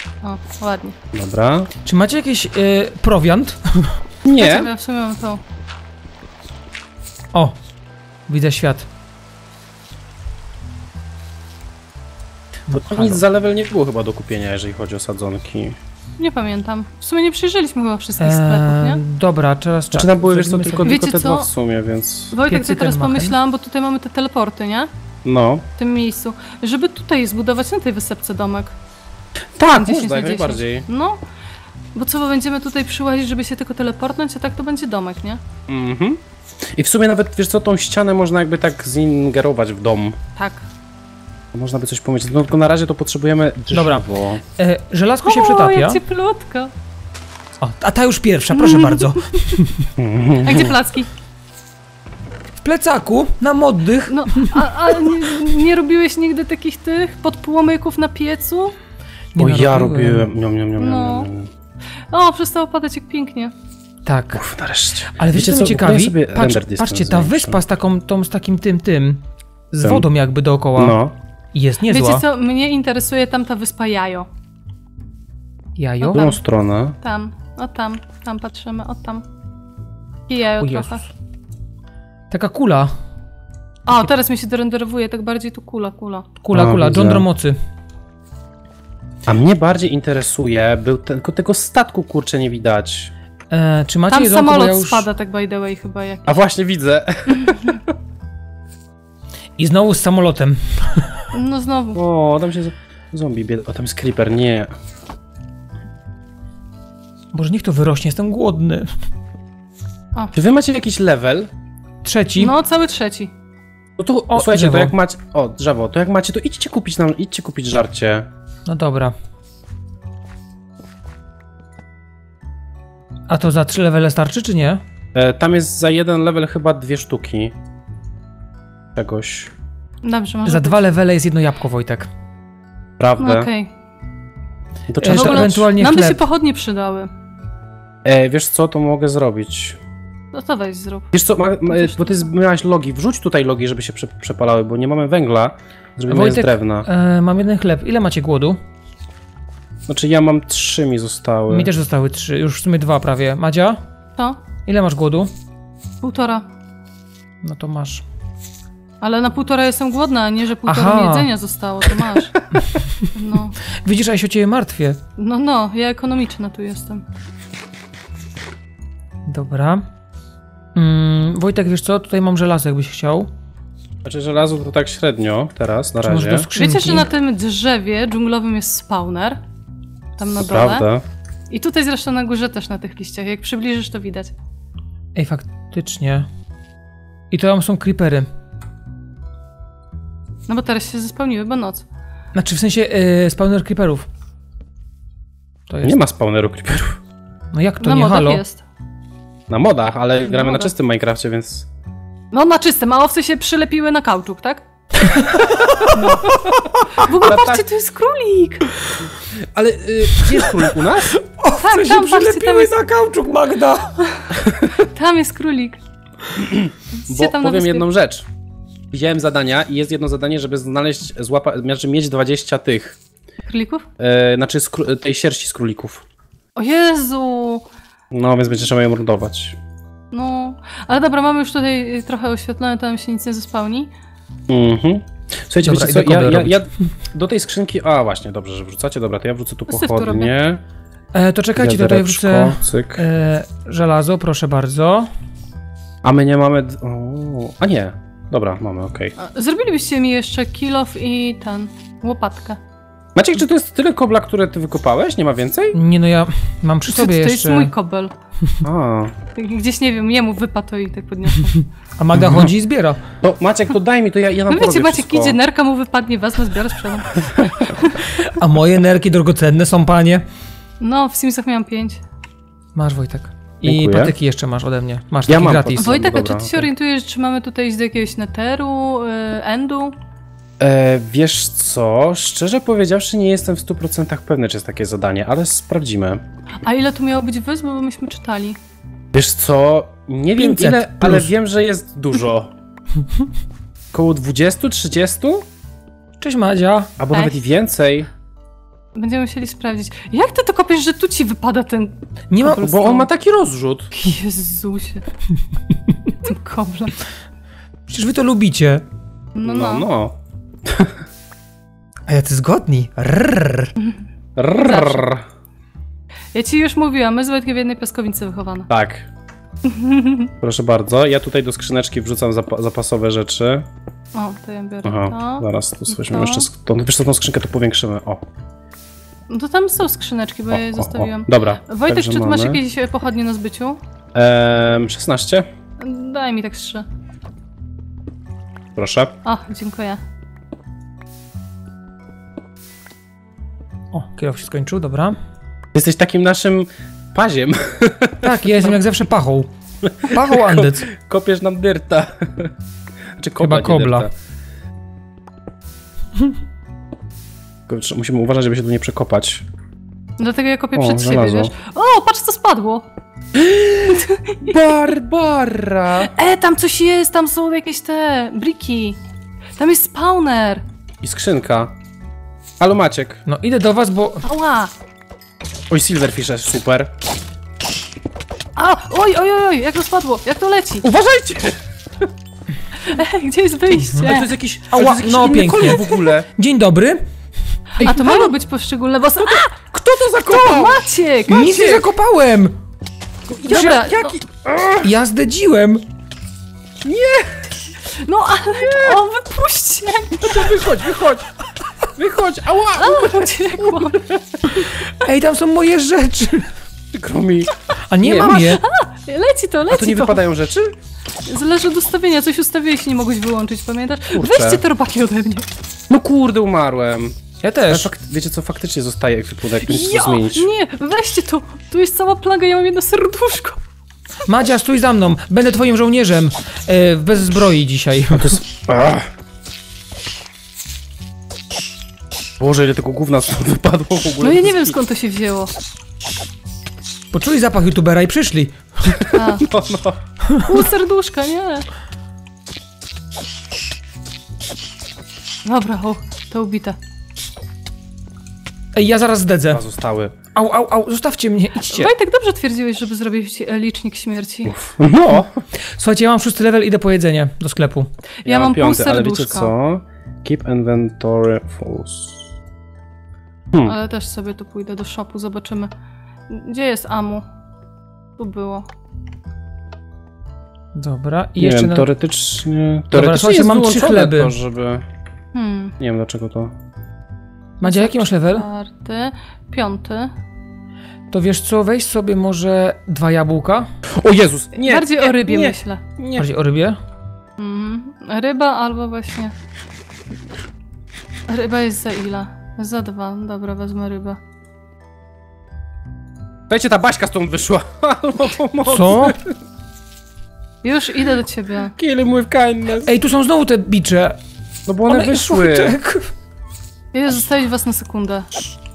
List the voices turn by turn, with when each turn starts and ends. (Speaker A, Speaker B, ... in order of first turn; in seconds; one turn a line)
Speaker A: 0.2-0.9
Speaker B: 1.1-1.7
Speaker C: 1.8-4.0
Speaker B: 4.2-4.7
Speaker A: 4.3-5.4
Speaker C: 8.3-8.9
Speaker C: 12.7-13.2
Speaker B: 12.7-15.8
Speaker A: 16.2-19.0
Speaker C: 18.2-20.9
Speaker B: 19.9-22.3
Speaker A: 20.8-21.5
Speaker A: 22.3-24.9
Speaker C: 22.5-23.4
Speaker B: 25.2-25.6
Speaker A: 25.8-28.7
Speaker B: 29.6-30.9
Speaker A: 29.7-31.2
Speaker A: 31.9-35.4
Speaker B: 35.7-36.2
Speaker B: 36.7-40.2
Speaker A: 40.4-40.6
Speaker B: 41.5-44.4
Speaker C: 43.7-44.0
Speaker C: 44.5-46.0
Speaker A: 45.2-46.7
Speaker C: 47.6-49.9
Speaker A: 48.5-49.6
Speaker B: 50.0-50.8
Speaker A: 50.4-51.1
Speaker C: 52.6-55.2
Speaker A: 54.1-58.8
Speaker C: 59.3-60.3
Speaker B: 59.4-61.5
Speaker A: 60.8-61.3
Speaker A: 62.1-63.5
Speaker C: 64.0-64.5
Speaker B: 64.3-67.6
Speaker C: 65.2-71.0
Speaker B: 70.8-71.1
Speaker C: 71.5-72.2
Speaker A: 71.9-74.3
Speaker C: 75.8-76.3
Speaker A: 76.0-76.4
Speaker B: 76.1-77.0
Speaker A: 77.0-79.2
Speaker A: 80.3-81.0
Speaker C: 80.6-81.0
Speaker C: 82.3-82.9
Speaker A: 83.8-86.3
Speaker C: 86.4-87.5
Speaker B: 86.5-87.2
Speaker B: 89.2-93.1
Speaker C: 93.5-95.0
Speaker A: 94.1-96.4
Speaker B: 96.3-97.9
Speaker A: 97.3-97.8
Speaker C: 99.6-101.3
Speaker A: 101.3-102.0
Speaker B: 101.9-104.7
Speaker C: 107.3-108.9
Speaker B: 110.3-111.5
Speaker C: 112.0-112.5
Speaker A: 112.3-113.3
Speaker B: 114.0-118.3
Speaker C: 114.3-114.9
Speaker C: 118.7-119.1
Speaker C: 123.3-124.8
Speaker B: 125.1-127.5
Speaker B: 128.9-129.5
Speaker A: 130.0-130.8
Speaker C: 130.4-132.1
Speaker B: 133.0-133.5
Speaker A: 133.2-133.7
Speaker B: 134.9-135.7
Speaker C: 135.0-136.2
Speaker A: 135.1-137.1
Speaker B: 138.0-139.8
Speaker A: 140.3-141.1
Speaker B: 141.1-146.9
Speaker A: 141.7-142.3
Speaker C: 146.1-148.6
Speaker B: 149.9-151.7
Speaker C: 151.5-153.8
Speaker C: 154.7-155.3
Speaker A: 156.0-156.4
Speaker C: 157.4-158.0
Speaker A: 159.0-162.4
Speaker C: 160.7-161.3
Speaker A: 163.1-163.6
Speaker C: 163.8-165.0
Speaker A: 165.2-167.0
Speaker C: 169.3-169.8
Speaker C: 170.7-173.3
Speaker B: 174.0-176.5
Speaker C: 176.0-177.1
Speaker A: 176.6-179.4
Speaker A: 180.2-180.9
Speaker B: 180.4-181.0
Speaker A: 181.5-184.3
Speaker C: 185.1-186.3
Speaker C: 187.3-188.3
Speaker A: 190.5-191.8
Speaker C: 192.3-194.1
Speaker C: 195.7-196.0
Speaker B: 195.8-197.0
Speaker C: 197.5-198.4
Speaker A: 197.8-198.6
Speaker B: 199.5-201.7
Speaker A: 200.2-200.7
Speaker A: 202.3-204.6
Speaker C: 205.1-206.4
Speaker A: 205.9-206.3
Speaker A: 206.9-208.7
Speaker B: 207.1-207.7
Speaker B: 209.3-211.2
Speaker C: 210.2-210.6
Speaker C: 211.2-214.0
Speaker A: 211.5-212.7
Speaker A: 214.0-215.8
Speaker B: 216.3-218.3
Speaker A: 216.9-217.8
Speaker B: 218.9-223.0
Speaker A: 223.5-223.8
Speaker B: 224.0-226.0
Speaker A: 226.6-227.7
Speaker B: 228.1-229.6
Speaker A: 230.1-233.9
Speaker B: 234.5-240.6
Speaker C: 235.6-236.5
Speaker A: 239.7-240.3
Speaker C: 241.1-245.1
Speaker B: 241.5-243.1
Speaker B: 246.0-249.1
Speaker A: 249.2-252.6
Speaker B: 253.1-255.8
Speaker C: 255.7-257.7
Speaker A: 256.9-258.1
Speaker B: 258.6-259.1
Speaker A: 259.3-261.6
Speaker C: 262.0-263.0
Speaker B: 262.1-262.5
Speaker B: 263.2-265.4
Speaker A: 264.5-268.3
Speaker B: 267.2-267.5
Speaker C: 268.2-270.2
Speaker A: 270.8-272.0
Speaker C: 272.7-275.9
Speaker B: 273.6-274.1
Speaker B: 275.3-276.7
Speaker A: 275.8-279.9
Speaker B: 280.6-286.2
Speaker A: 286.6-288.6
Speaker B: 289.1-292.5
Speaker C: 290.4-291.3
Speaker B: 293.9-295.5
Speaker C: 296.2-296.9
Speaker B: 297.0-298.1
Speaker A: 298.9-302.0
Speaker C: 302.3-303.0
Speaker B: 302.4-303.9
Speaker A: 303.9-305.0
Speaker A: 306.2-307.0
Speaker C: 307.9-308.8
Speaker A: 309.3-309.9
Speaker B: 309.4-310.1
Speaker B: 310.6-311.0
Speaker C: 312.1-313.7
Speaker B: 314.4-315.2
Speaker A: 314.5-315.1
Speaker A: 316.3-318.7
Speaker B: 318.7-319.1
Speaker A: 319.6-320.3
Speaker B: 320.4-323.6
Speaker A: 324.1-326.5
Speaker B: 324.8-328.2
Speaker A: 329.3-333.8
Speaker B: 330.5-332.6
Speaker B: 334.1-335.5
Speaker A: 335.8-336.9
Speaker B: 338.8-339.1
Speaker A: 339.2-340.0
Speaker C: 343.9-345.2
Speaker B: 345.7-348.7
Speaker C: 348.2-349.5
Speaker B: 349.8-352.5
Speaker C: 350.0-350.9
Speaker B: 353.2-354.1
Speaker C: 353.4-354.1
Speaker B: 357.7-359.4
Speaker A: 360.2-362.8
Speaker B: 360.7-361.5
Speaker B: 363.3-366.1
Speaker A: 363.9-364.5
Speaker A: 366.0-369.0
Speaker A: 369.6-370.6
Speaker B: 371.0-371.7
Speaker B: 372.6-373.2
Speaker C: 373.3-374.2
Speaker A: 374.2-374.7
Speaker B: 375.7-376.9
Speaker A: 378.6-380.9
Speaker B: 380.8-381.6
Speaker A: 382.8-384.3
Speaker C: 383.8-384.1
Speaker B: 384.0-386.3
Speaker C: 384.7-387.0
Speaker C: 387.8-388.3
Speaker A: 387.8-389.6
Speaker B: 389.2-390.9
Speaker A: 390.2-391.8
Speaker C: 391.3-392.5
Speaker B: 391.4-391.8
Speaker B: 393.3-394.9
Speaker A: 393.4-394.2
Speaker C: 394.8-395.8
Speaker B: 396.8-397.6
Speaker A: 397.9-400.5
Speaker B: 398.6-399.0
Speaker B: 400.1-401.3
Speaker B: 401.9-404.6
Speaker A: 402.7-404.0
Speaker C: 404.7-406.5
Speaker B: 406.9-408.6
Speaker C: 407.9-408.6
Speaker A: 408.3-410.2
Speaker B: 409.7-410.7
Speaker A: 411.2-415.5
Speaker B: 414.1-414.6
Speaker B: 415.9-420.5
Speaker C: 417.4-417.9
Speaker A: 419.6-423.6
Speaker C: 424.3-428.4
Speaker B: 428.1-429.1
Speaker B: 432.4-434.8
Speaker A: 434.2-435.5
Speaker C: 437.1-439.0
Speaker A: 439.1-439.5
Speaker B: 439.4-440.0
Speaker C: 440.2-440.5
Speaker A: 440.4-441.6
Speaker A: 445.4-446.8
Speaker C: 448.7-449.6
Speaker B: 449.5-450.1
Speaker C: 450.3-451.9
Speaker A: 451.7-454.5
Speaker B: 454.5-455.4
Speaker C: 455.7-457.9
Speaker A: 458.2-459.5
Speaker B: 458.2-462.3
Speaker A: 463.6-465.7
Speaker A: 466.3-467.2
Speaker A: 468.2-468.7
Speaker C: 470.7-471.9
Speaker B: 471.4-474.8
Speaker C: 472.9-474.3
Speaker A: 475.3-475.7
Speaker B: 475.8-476.5
Speaker C: 477.6-478.5
Speaker A: 477.6-480.1
Speaker C: 481.1-483.7
Speaker B: 483.9-486.3
Speaker A: 484.5-485.8
Speaker C: 486.1-486.8
Speaker A: 487.4-489.3
Speaker A: 491.3-494.2
Speaker B: 496.5-499.3
Speaker C: 498.6-499.2
Speaker A: 500.6-501.7
Speaker B: 501.7-502.9
Speaker C: 502.8-504.2
Speaker B: 504.7-505.8
Speaker C: 504.9-506.1
Speaker A: 506.9-508.3